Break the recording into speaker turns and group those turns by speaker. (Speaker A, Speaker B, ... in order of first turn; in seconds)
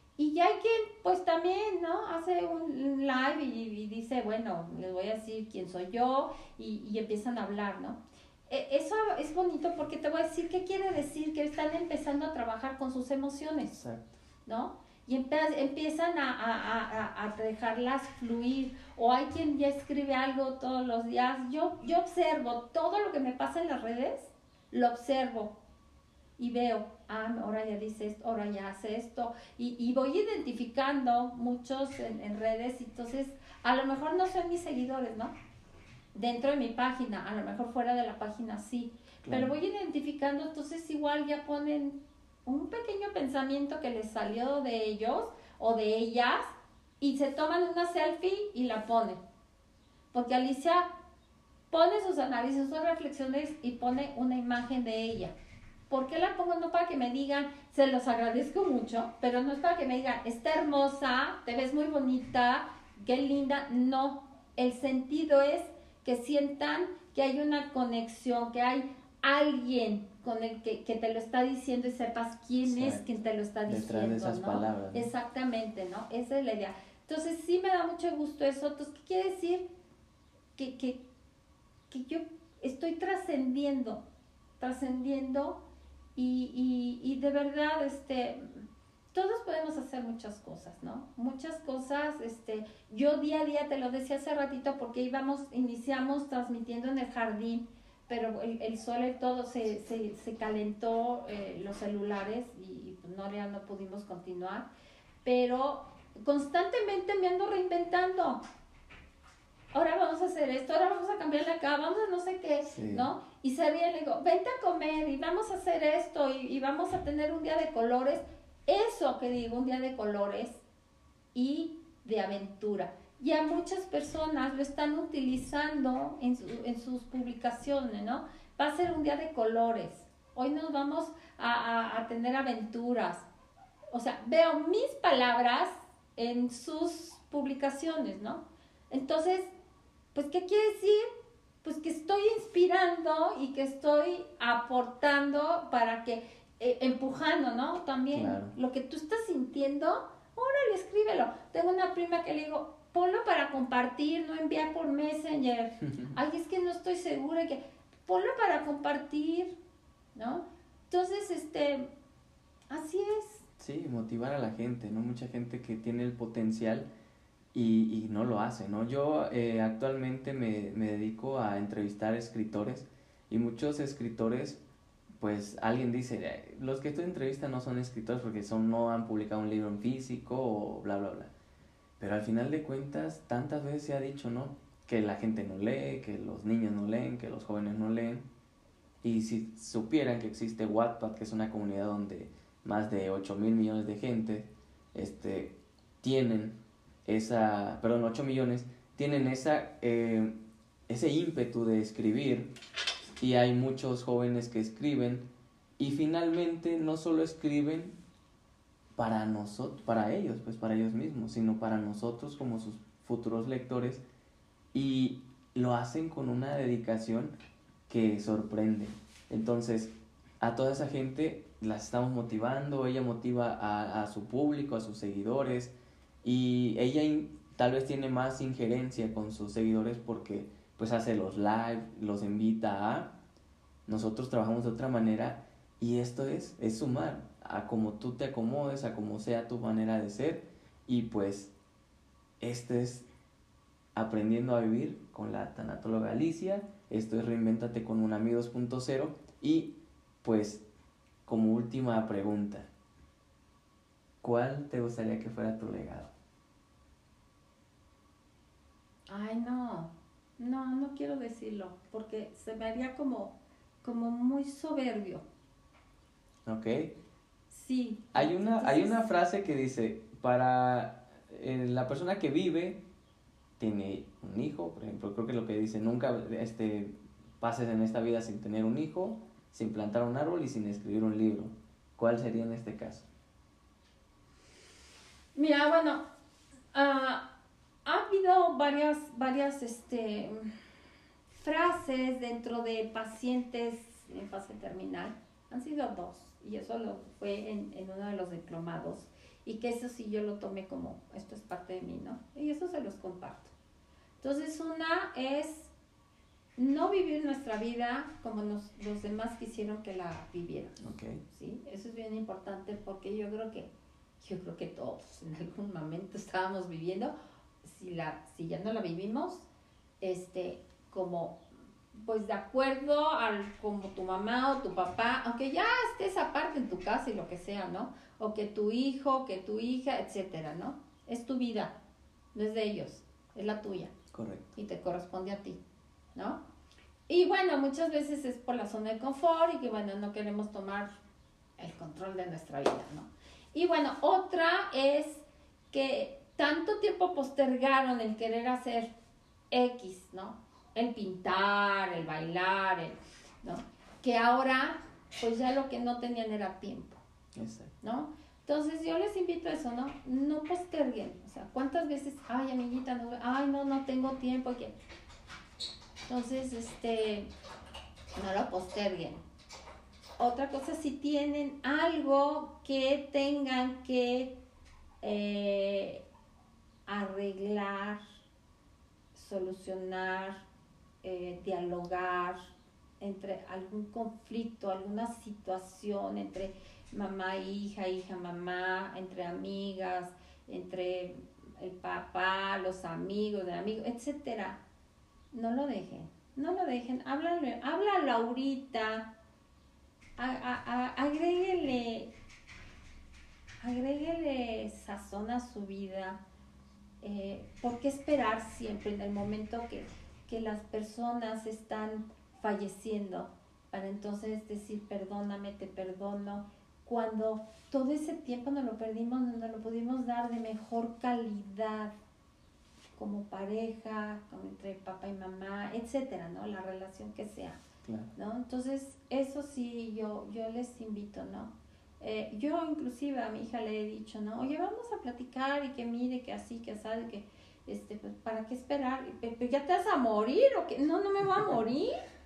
Speaker A: 0.2-13.8, 14.4-25.6, 26.4-35.3, 36.1-46.4, 47.0-49.2, 50.1-50.9, 51.7-55.3, 55.9-79.7, 80.5-81.0, 81.9-84.0, 84.6-85.6, 86.2-104.7, 105.2-108.4, 109.7-120.6, 121.3-133.3, 133.9-139.5, 140.1-141.1, 141.6-159.6, 160.1-161.9, 162.7-163.4, 259.1-265.2, 267.5-269.0, 285.3-286.0, 286.7-287.3, 287.8-290.5, 291.4-303.5, 304.2-305.7, 306.6-317.1, 317.6-319.4, 320.0-321.4, 321.9-331.7, 332.3-333.9, 334.6-335.6, 336.1-336.4, 337.1-340.9, 341.6-348.9, 349.5-357.0, 357.8-364.7, 366.1-367.3, 368.1-369.2, 370.2-374.4, 375.0-376.0, 376.9-378.0, 379.1-380.4, 381.0-382.5, 383.0-394.6, 395.3-399.1, 400.2-402.1, 403.6-406.2, 407.0-421.9, 423.0-427.6, 428.1-442.0
Speaker B: 13.7-14.1, 39.2-39.5, 72.6-73.1, 73.7-75.1, 112.7-113.1, 148.1-148.6, 163.6-166.9, 167.5-174.6, 175.2-181.3, 182.0-188.3, 189.0-202.5, 203.2-208.0, 209.0-214.0, 214.7-217.3, 217.9-233.2, 233.9-241.5, 242.4-243.1, 243.9-250.6, 251.2-252.7, 254.2-256.1, 266.4-266.9, 268.1-272.8, 273.6-283.1, 310.8-311.2, 334.1-334.5, 357.3-357.7, 427.8-428.1